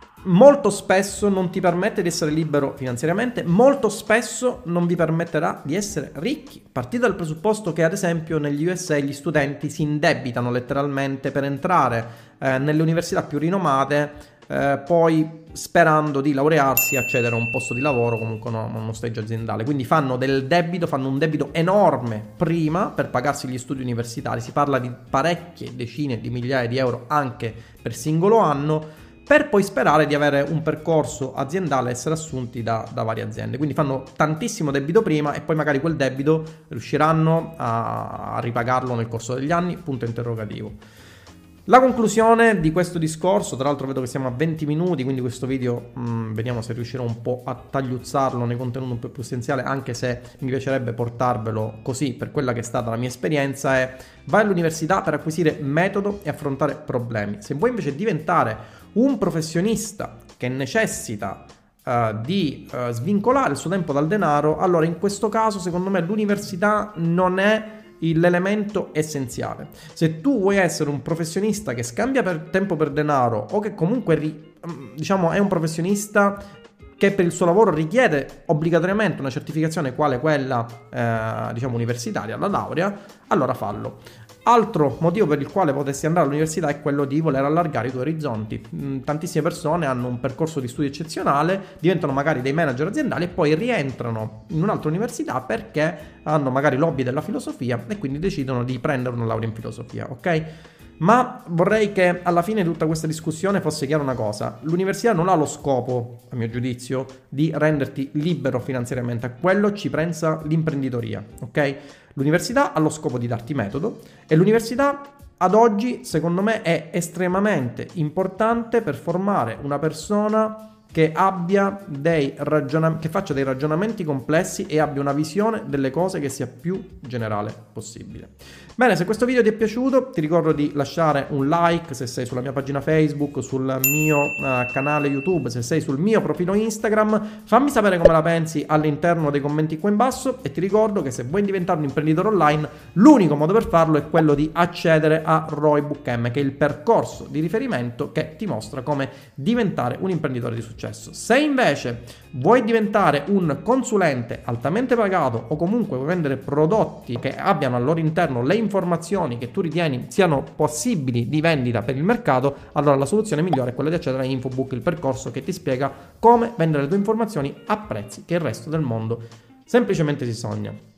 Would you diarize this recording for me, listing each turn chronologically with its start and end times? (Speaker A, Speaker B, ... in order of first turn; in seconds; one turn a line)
Speaker A: 0.2-40.8
Speaker A: 41.7-76.5
Speaker A: 77.0-100.5
Speaker A: 101.0-170.8